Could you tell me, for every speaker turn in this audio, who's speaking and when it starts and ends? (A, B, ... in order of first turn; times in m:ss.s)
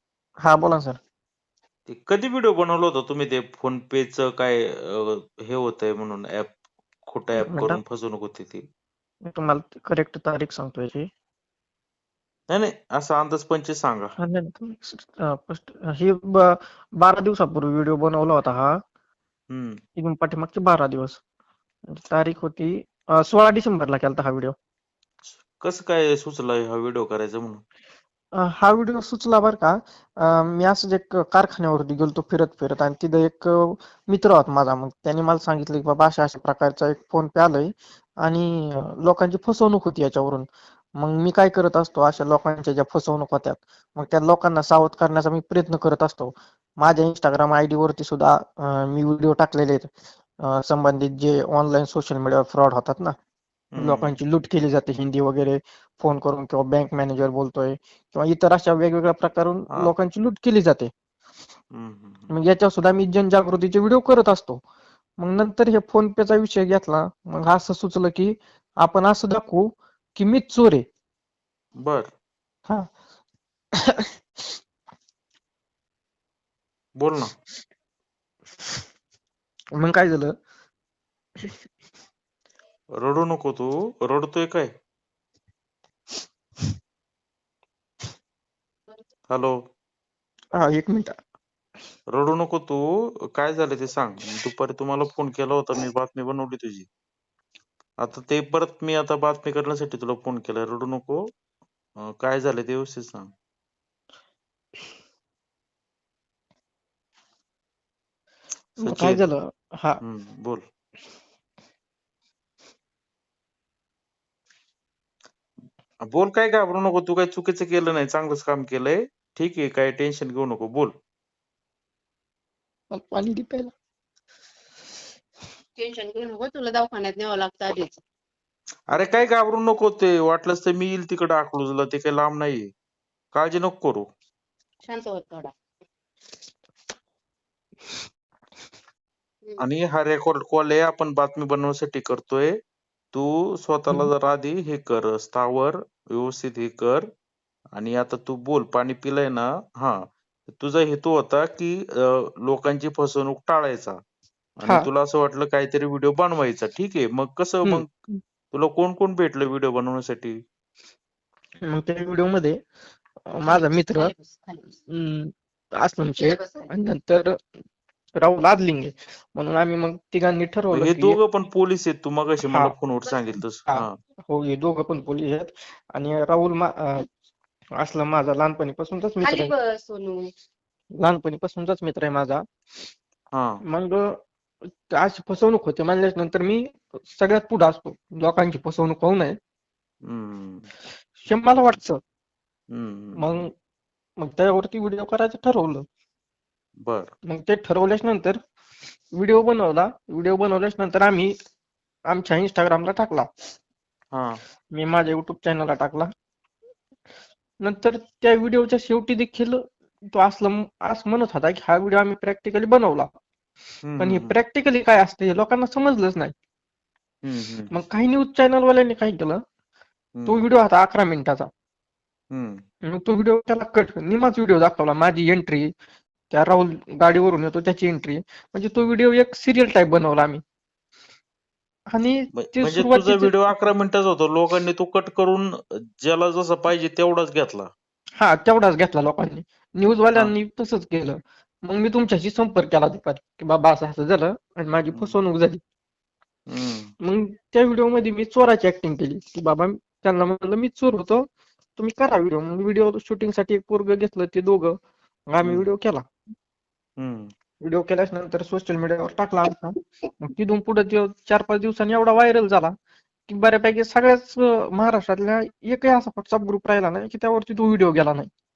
0:00.4-0:01.0 A
0:01.9-0:06.5 B
0:07.1-0:08.6 B
0:07.5-0:07.8 A
0:09.2-0:11.0 A
0:12.5-0:14.1 B
0:14.2-0:18.8 A
0:19.5-0:19.8 B
0:20.0-0:21.2 A
0:21.9-0:24.5 A
0:25.2-0:27.6 B
0:28.4-0:40.4 A
0:41.0-0:49.9 A
0:50.4-0:53.1 A
0:53.7-0:54.2 B
0:53.8-1:00.9 A
1:01.7-1:02.3 B
1:02.3-1:04.6 A
1:05.2-1:10.8 A
1:11.8-1:12.1 B
1:13.9-1:14.6 A
1:17.0-1:17.3 B
1:19.8-1:20.3 A
1:23.0-1:24.7 B
1:29.3-1:29.5 B
1:30.6-1:31.1 A
1:32.1-1:36.9 B
1:38.0-1:41.2 B
1:42.1-1:43.3 B
1:48.8-1:49.2 B
1:48.8-1:50.0 A
1:50.0-1:50.6 B
1:56.1-2:00.9 B
2:02.9-2:03.7 A
2:05.8-2:07.9 C
2:08.9-2:12.7 B
2:13.3-2:14.0 B
2:14.8-2:15.5 C
2:19.6-2:22.6 B
2:23.1-2:27.0 B
2:27.7-2:34.0 B
2:34.6-2:37.9 B
2:37.6-2:38.2 A
2:38.5-2:40.4 B
2:41.7-2:42.5 A
2:43.3-2:44.1 A
2:43.5-2:44.6 C
2:44.9-2:47.3 A
2:46.2-2:46.6 C
2:48.2-2:51.2 A
2:50.7-2:54.0 B
2:52.4-2:52.7 A
2:53.7-2:57.0 A
2:57.8-2:59.5 A
2:59.2-3:00.3 C
3:01.0-3:02.4 A
3:03.3-3:03.6 B
3:03.7-3:04.0 A
3:04.9-3:09.3 A
3:10.1-3:10.7 B
3:11.2-3:12.0 A
3:12.7-3:13.2 B
3:13.2-3:13.5 A
3:14.2-3:15.8 A
3:16.8-3:17.1 B
3:17.3-3:18.4 A
3:19.1-3:21.3 A
3:22.1-3:23.2 A
3:24.1-3:24.4 B
3:24.7-3:26.1 A
3:27.6-3:29.6 A
3:30.1-3:33.1 A
3:33.8-3:34.3 B
3:34.0-3:36.3 A
3:37.2-3:37.7 B
3:37.7-3:39.4 A
3:40.2-3:40.4 B
3:40.3-3:41.5 A
3:42.3-3:42.6 B
3:42.9-3:45.7 A
3:46.3-3:50.4 A
3:51.9-3:53.5 A
3:52.3-3:57.7 B
3:58.2-4:05.6 A
4:06.5-4:06.9 B
4:07.0-4:11.2 A
4:11.8-4:14.7 A
4:15.3-4:16.0 A
4:17.0-4:17.3 B
4:17.6-4:22.7 A
4:23.3-4:28.3 A